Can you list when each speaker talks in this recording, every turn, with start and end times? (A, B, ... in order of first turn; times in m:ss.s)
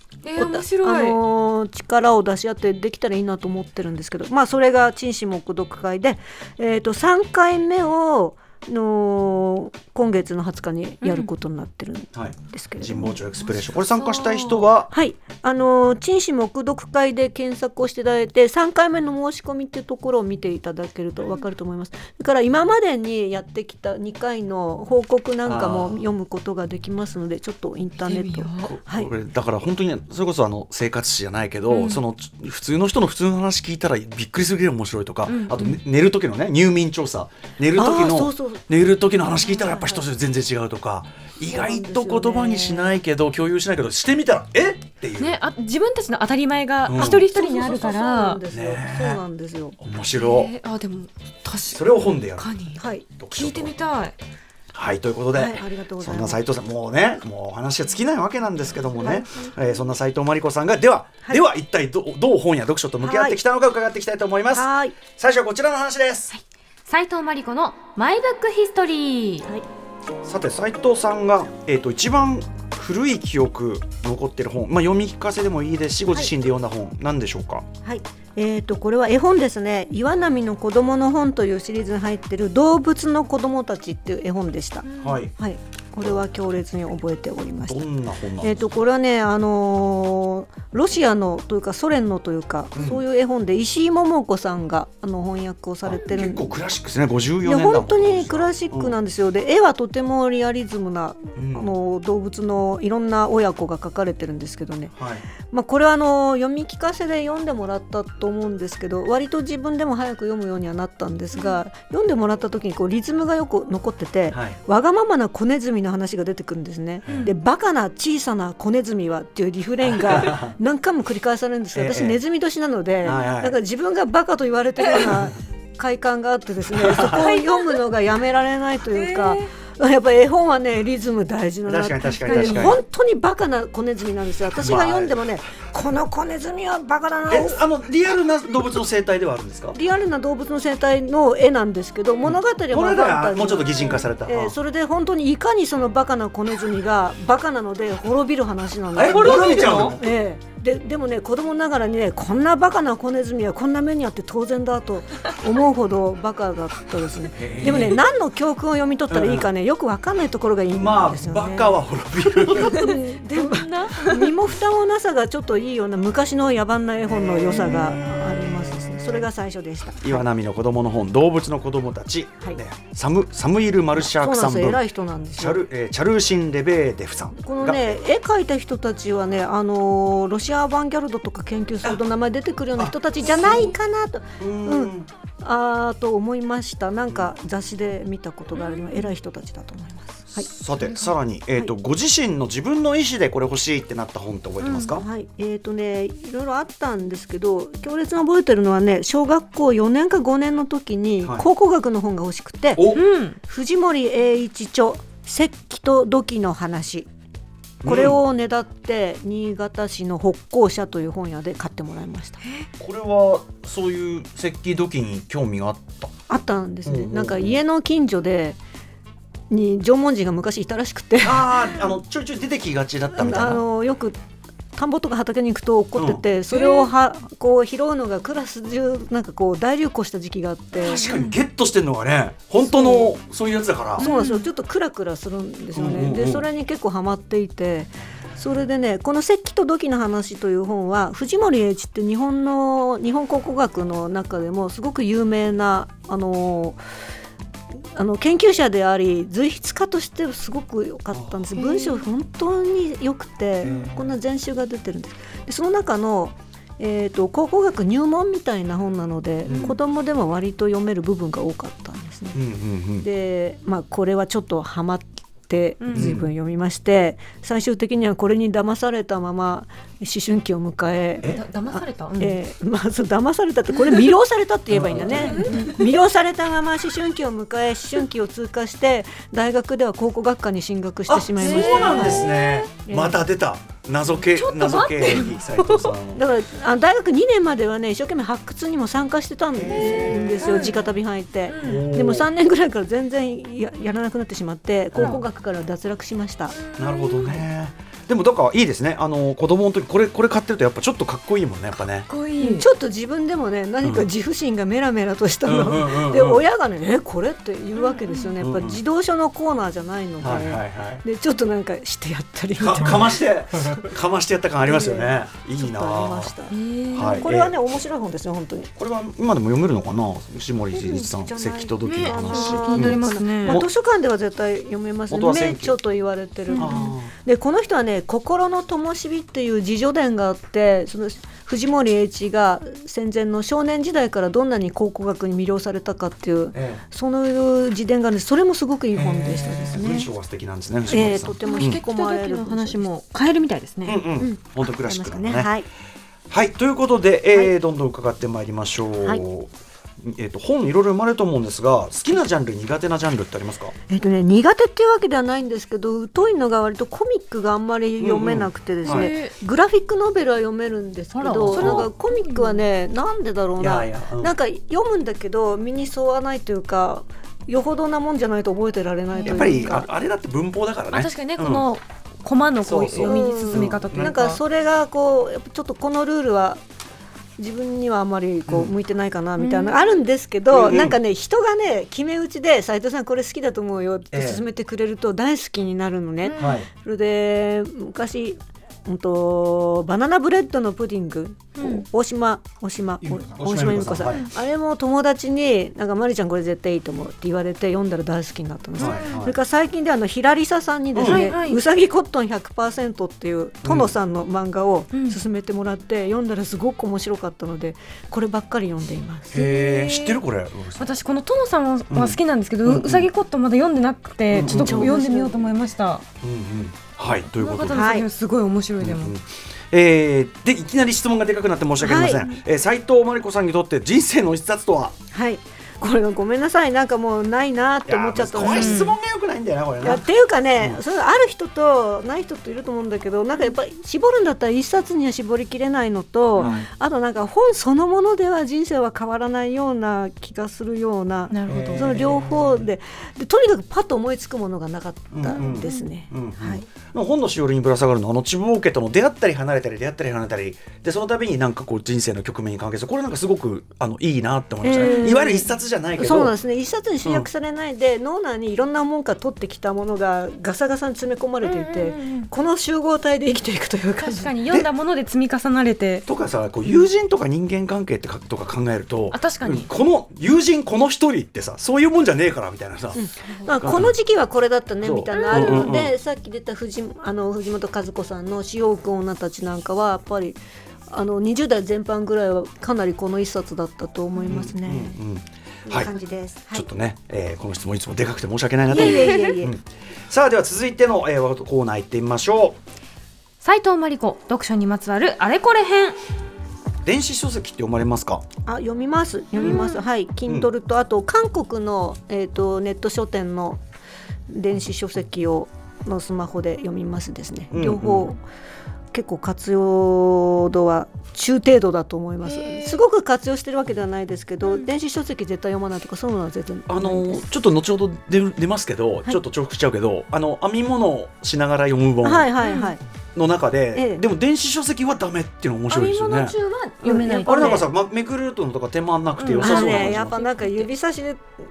0:00.2-0:01.2 A
0:00.4-0:13.2 B
0:11.0-0:11.3 A
0:12.1-0:14.9 C
0:13.5-0:14.7 A
0:14.9-0:29.1 B
0:25.4-0:26.0 C
0:28.0-0:28.8 A
0:28.7-0:45.4 C
0:31.7-0:32.0 A
0:35.3-0:35.8 A
0:37.8-0:38.6 B
0:39.2-0:40.0 B
0:41.5-0:43.0 B
0:45.2-0:48.4 A
0:46.9-0:47.3 C
0:47.0-0:49.8 B
0:48.5-0:49.2 C
0:49.8-0:50.5 C
0:50.2-0:54.2 A
0:51.7-0:52.5 C
0:52.8-0:53.0 B
0:53.2-0:53.8 C
0:54.7-1:06.3 C
0:55.3-0:56.4 B
0:59.0-0:59.5 B
1:03.0-1:03.4 B
1:04.5-1:05.0 B
1:06.3-1:09.5 A
1:10.2-1:17.7 C
1:17.8-1:27.9 B
1:24.8-1:25.2 A
1:25.0-1:25.3 C
1:27.7-1:28.7 C
1:28.4-1:36.5 B
1:32.8-1:33.0 C
1:35.8-1:39.0 C
1:37.4-1:44.9 B
1:41.4-1:41.7 C
1:45.0-1:45.2 C
1:45.5-2:17.6 B
1:54.3-1:54.6 C
1:57.1-1:57.3 C
1:59.9-2:00.5 C
2:01.7-2:02.2 C
2:03.0-2:03.6 C
2:06.7-2:07.2 C
2:07.1-2:07.8 A
2:08.9-2:09.5 A
2:11.7-2:12.8 C
2:12.0-2:12.8 A
2:14.6-2:15.2 C
2:17.3-2:19.8 C
2:19.7-2:41.8 B
2:22.2-2:24.6 C
2:29.0-2:30.1 C
2:29.1-2:30.0 A
2:37.4-2:38.0 C
2:39.1-2:39.5 C
2:40.7-2:42.9 C
2:42.4-2:50.2 B
2:42.6-2:44.3 A
2:47.4-2:49.2 C
2:50.0-2:54.8 C
2:54.0-2:55.6 B
2:55.4-2:58.0 C
2:57.4-3:10.5 B
3:02.8-3:03.8 C
3:04.4-3:05.1 C
3:08.6-3:09.1 A
3:10.3-3:15.0 C
3:10.8-3:11.2 A
3:14.6-3:15.0 A
3:15.0-3:22.9 B
3:22.8-3:23.0 C
3:22.9-3:23.4 A
3:23.5-3:27.1 B
3:27.8-3:28.2 C
3:27.8-3:32.4 B
3:32.8-3:36.1 C
3:36.3-3:38.6 B
3:36.9-3:37.6 C
3:39.5-3:41.6 B
3:41.2-3:43.6 C
3:43.1-3:44.2 B
3:44.8-3:51.1 B
3:46.0-3:46.2 C
3:46.5-3:46.9 A
3:50.8-3:51.4 A
3:50.8-3:54.1 C
3:52.6-3:53.1 B
3:54.0-4:06.8 B
3:54.0-3:54.5 A
3:55.8-3:56.5 C
4:08.0-4:22.4 B
4:11.1-4:11.5 C
4:11.6-4:12.1 A
4:13.6-4:14.1 C
4:19.4-4:19.8 C
4:19.5-4:19.8 A
4:22.4-4:23.1 C
4:23.0-4:42.3 B
4:25.8-4:26.1 A
4:25.9-4:26.3 C
4:31.2-4:32.4 A
4:34.7-4:35.7 C
4:35.1-4:35.8 A
4:41.1-4:46.2 C
4:41.4-4:42.7 A
4:42.8-4:43.2 B
4:44.3-4:45.9 A
4:46.1-4:56.6 B
4:49.5-4:50.5 C
4:49.7-4:50.8 A
4:51.5-4:51.9 A
4:51.6-4:52.3 C
4:56.6-4:57.4 A
4:56.8-5:02.1 C
5:02.1-5:02.7 A
5:02.4-5:13.6 B
5:05.4-5:06.4 C
5:07.8-5:08.3 A
5:08.4-5:08.8 C
5:10.2-5:11.0 C
5:12.6-5:16.3 C
5:14.6-5:16.6 B
5:16.5-5:17.3 A
5:16.9-5:17.6 C
5:17.1-5:18.7 B
5:18.8-5:23.7 C
5:20.7-5:40.1 B
5:21.8-5:23.6 A
5:25.1-5:25.8 C
5:26.5-5:26.9 A
5:26.6-5:27.1 C
5:36.5-5:36.8 C
5:38.9-5:41.8 C
5:40.9-5:42.8 B
5:41.4-5:44.0 A
5:43.9-5:45.5 C
5:44.2-5:45.7 B
5:46.3-5:53.7 C
5:53.9-6:09.9 B
5:58.0-5:59.1 C
5:58.8-5:59.3 A
6:01.1-6:02.6 A
6:01.4-6:01.9 C
6:03.6-6:04.3 C
6:09.1-6:09.8 A
6:09.2-6:11.6 C
6:10.9-6:14.4 A
6:12.6-6:14.1 C
6:13.0-6:16.6 B
6:17.4-6:49.4 B
6:19.4-6:19.9 A
6:20.5-6:21.0 C
6:24.1-6:24.4 C
6:26.2-6:26.6 A
6:26.4-6:26.7 C
6:31.6-6:31.9 A
6:33.0-6:34.3 C
6:38.8-6:39.3 A
6:38.8-6:39.4 C
6:41.0-6:41.3 C
6:41.0-6:41.6 A
6:43.6-6:43.9 C
6:44.9-6:45.2 A
6:49.3-6:50.2 A
6:49.3-6:50.9 C
6:50.8-6:56.0 A
6:51.9-6:53.1 C
6:54.3-6:55.0 C
6:54.4-6:55.4 B
6:56.2-6:57.9 C
6:57.4-6:59.1 A
6:57.7-6:58.1 B
6:58.8-7:05.0 C
7:01.8-7:02.3 B
7:05.1-7:08.9 B
7:07.9-7:10.0 C
7:08.4-7:09.0 A
7:09.8-7:26.7 B
7:16.4-7:16.6 A
7:16.4-7:16.7 C
7:21.3-7:22.0 A
7:21.5-7:22.7 C
7:25.1-7:36.3 C
7:25.4-7:25.9 A
7:34.6-7:35.5 B
7:34.7-7:35.4 A
7:36.0-7:44.3 B
7:41.4-7:42.3 A
7:44.0-7:46.1 A
7:46.1-7:53.0 C
7:49.1-7:49.7 A
7:53.0-8:05.0 B
7:53.6-7:53.9 C
7:54.8-7:55.9 C
7:55.1-7:55.8 A
8:04.3-8:05.9 C
8:05.7-8:06.7 B
8:06.5-8:12.6 C
8:08.7-8:09.5 B
8:08.7-8:09.4 A
8:13.4-8:16.0 A
8:16.8-8:18.2 C
8:18.5-8:23.6 B
8:19.4-8:19.8 A
8:24.3-8:28.2 B
8:27.5-8:28.1 C
8:28.9-8:37.3 B
8:32.2-8:32.8 A
8:36.7-8:42.3 C
8:42.0-8:42.8 B
8:42.4-8:42.7 A
8:43.2-8:46.4 C
8:43.7-8:44.0 B
8:45.7-8:47.6 A
8:46.8-8:47.7 B
8:47.2-8:50.1 C
8:49.2-8:50.7 A
8:49.4-8:51.3 B